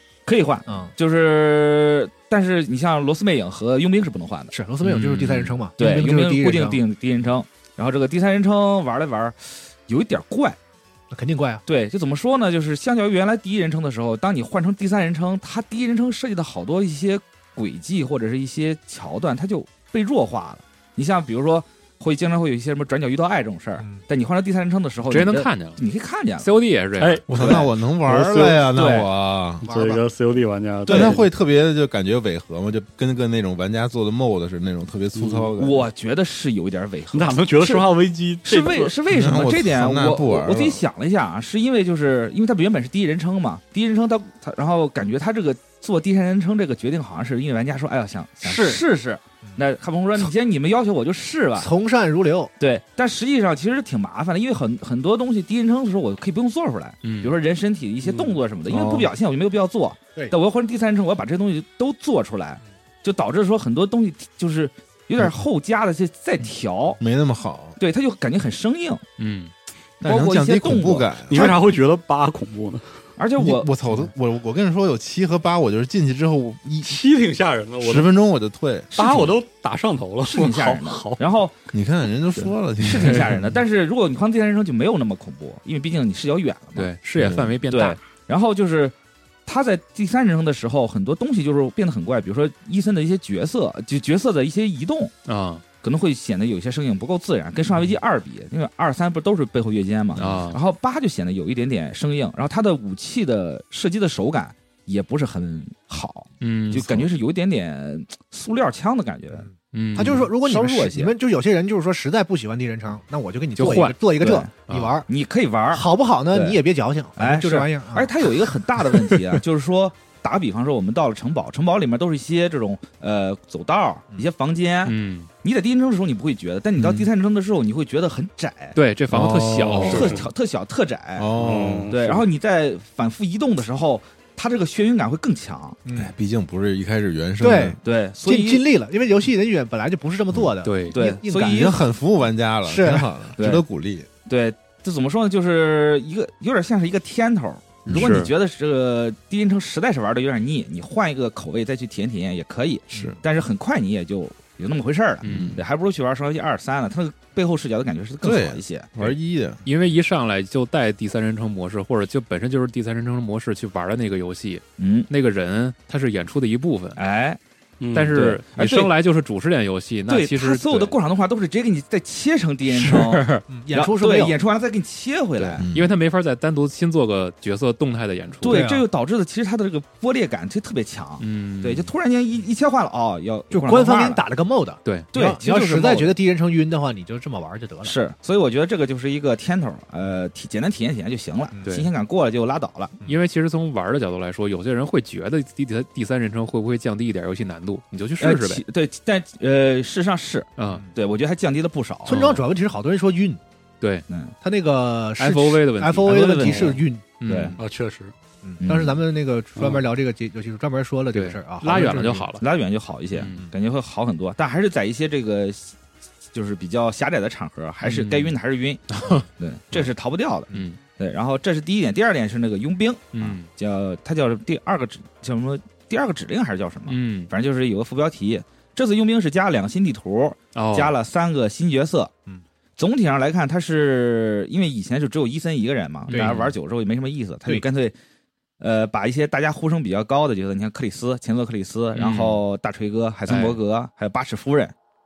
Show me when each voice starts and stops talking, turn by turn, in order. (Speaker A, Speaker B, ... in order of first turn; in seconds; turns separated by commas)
Speaker A: 0.3-4.5, Speaker B: 0.7-0.9, Speaker B: 4.5-6.8, Speaker C: 4.8-5.6, Speaker A: 5.8-10.6, Speaker B: 11.1-11.6, Speaker A: 11.7-26.5, Speaker B: 23.8-24.1, Speaker C: 25.1-25.8, Speaker C: 26.4-27.2, Speaker D: 27.0-28.7, Speaker E: 27.3-29.7, Speaker A: 27.3-27.7, Speaker A: 28.7-29.1, Speaker B: 29.6-30.0, Speaker D: 29.7-31.3, Speaker A: 30.9-31.2, Speaker E: 30.9-35.9, Speaker D: 35.1-35.5, Speaker A: 35.6-37.9, Speaker D: 37.1-38.9, Speaker A: 38.5-51.7, Speaker E: 39.1-40.8, Speaker B: 48.4-48.8, Speaker B: 51.6-52.5, Speaker A: 52.6-67.0, Speaker C: 57.0-57.4, Speaker E: 58.7-59.1, Speaker E: 67.0-67.8, Speaker A: 67.8-69.0, Speaker C: 69.2-69.5, Speaker A: 70.0-71.5, Speaker E: 70.0-71.6, Speaker D: 71.3-73.0, Speaker A: 73.2-73.7, Speaker E: 73.4-77.0, Speaker D: 76.8-78.1, Speaker E: 77.8-79.2, Speaker A: 79.0-79.3, Speaker D: 79.0-81.2, Speaker A: 80.2-81.5, Speaker E: 81.7-83.5, Speaker A: 82.8-86.9, Speaker C: 86.8-88.0, Speaker E: 87.2-87.5, Speaker A: 87.7-88.9, Speaker A: 89.5-95.1, Speaker C: 95.3-95.6, Speaker A: 95.8-109.5, Speaker C: 100.2-100.6, Speaker C: 106.4-107.1, Speaker C: 109.7-110.3, Speaker B: 110.0-115.1, Speaker A: 110.0-111.1, Speaker C: 113.6-114.0, Speaker A: 114.2-116.6, Speaker C: 114.7-114.9, Speaker B: 115.7-119.3, Speaker A: 117.2-128.8, Speaker C: 124.9-125.3, Speaker C: 128.8-130.2, Speaker E: 129.1-130.2, Speaker A: 129.8-131.3, Speaker D: 129.8-130.2, Speaker E: 131.2-132.0, Speaker D: 131.4-132.2, Speaker A: 131.9-135.8, Speaker B: 135.8-136.1, Speaker E: 136.0-137.8, Speaker B: 137.4-141.8, Speaker A: 137.8-138.7, Speaker C: 140.6-141.0, Speaker A: 140.9-141.7, Speaker E: 141.5-144.1, Speaker B: 142.7-143.1, Speaker A: 143.4-143.6, Speaker A: 144.3-158.9, Speaker E: 147.9-148.2, Speaker C: 147.9-148.3, Speaker B: 152.9-153.2, Speaker C: 155.2-155.6, Speaker E: 155.2-155.6, Speaker E: 158.2-159.6, Speaker C: 159.7-167.0, Speaker A: 164.8-165.1, Speaker A: 167.0-167.4, Speaker D: 167.8-168.4, Speaker C: 167.9-170.9, Speaker A: 168.2-168.9, Speaker A: 170.1-175.6, Speaker B: 172.7-174.4, Speaker C: 175.4-178.6, Speaker E: 175.6-176.0, Speaker A: 178.4-184.2, Speaker B: 178.4-178.9, Speaker C: 181.2-181.9, Speaker B: 183.5-188.0, Speaker A: 185.1-186.2, Speaker A: 187.8-193.0, Speaker B: 191.5-191.8, Speaker C: 193.1-198.6, Speaker A: 198.2-202.2, Speaker C: 200.6-200.9, Speaker B: 202.1-203.4, Speaker C: 202.1-202.4, Speaker A: 204.1-204.3, Speaker B: 204.4-207.2, Speaker C: 205.2-207.6, Speaker A: 206.0-207.6, Speaker D: 207.6-208.1, Speaker B: 208.4-212.3, Speaker A: 208.6-209.0, Speaker C: 211.1-212.4, Speaker A: 212.4-215.8, Speaker C: 213.1-213.4, Speaker A: 216.3-218.8, Speaker C: 217.8-218.3, Speaker C: 218.9-219.9, Speaker A: 219.4-232.1, Speaker C: 220.5-220.8, Speaker C: 223.1-223.5, Speaker C: 226.9-227.3, Speaker C: 230.6-230.9, Speaker A: 232.8-237.9, Speaker C: 236.1-236.6, Speaker B: 236.1-236.5, Speaker A: 238.6-244.7, Speaker C: 241.9-242.4, Speaker C: 243.3-243.6